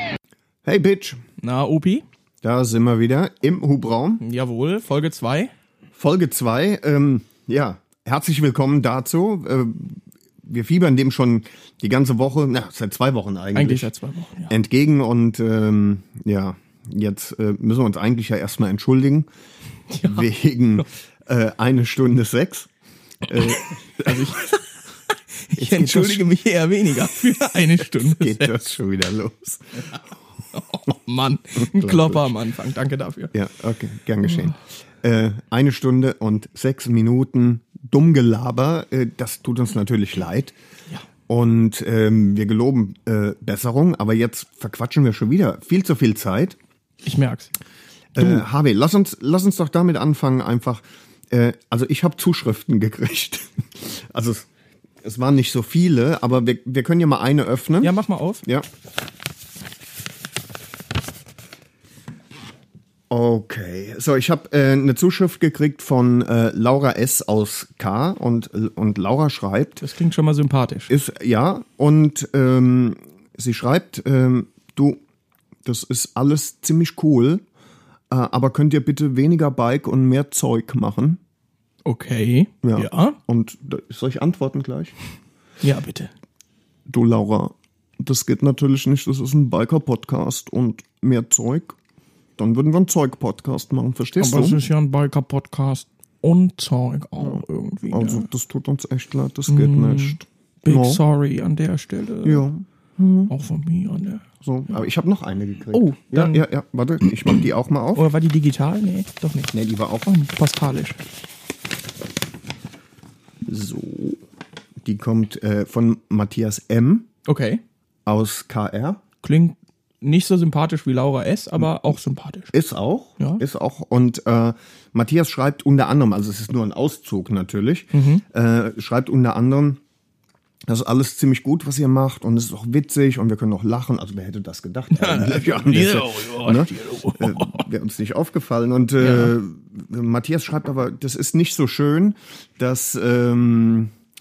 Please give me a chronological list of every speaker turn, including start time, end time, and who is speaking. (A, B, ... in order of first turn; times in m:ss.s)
0:00.6-0:01.2 A
0:01.4-0:02.0 B
0:02.4-0:04.2 A
0:04.2-0:05.5 B
0:06.0-0:13.9 A
0:13.6-0:14.5 B
0:14.5-0:19.3 A
0:19.9-0:20.3 B
0:20.0-0:22.7 A
0:23.3-0:24.4 A
0:23.5-0:24.6 B
0:25.5-0:28.6 B
0:25.6-0:26.3 A
0:27.9-0:30.0 A
0:30.5-0:33.3 B
0:31.6-0:32.4 A
0:33.3-0:40.6 A
0:41.3-0:46.6 A
0:47.0-0:47.5 B
0:48.2-0:54.5 A
0:55.0-0:57.9 A
0:57.8-0:58.4 B
1:03.1-1:09.8 A
1:09.8-1:10.9 B
1:10.9-1:15.0 A
1:15.6-1:17.4 A
1:18.1-1:21.2 A
1:21.8-1:23.2 B
1:22.6-1:24.9 A
1:25.6-1:26.1 B
1:26.9-1:31.8 A
1:32.4-1:34.6 A
1:34.2-1:38.3 B
1:37.2-1:41.0 A
1:39.5-1:42.5 B
1:42.2-1:43.3 A
1:43.3-1:44.2 B
1:44.4-1:48.1 A
1:45.7-1:46.4 B
1:48.0-1:49.5 B
1:49.5-1:50.1 A
1:50.1-1:51.0 B
1:53.4-1:54.2 A
1:54.8-1:57.1 A
1:57.3-1:57.6 B
1:58.1-1:59.0 A
1:59.2-2:02.5 B
2:02.5-2:09.8 A
2:07.9-2:08.2 B
2:10.7-2:23.9 A
2:14.9-2:17.6 B
2:19.0-2:19.3 B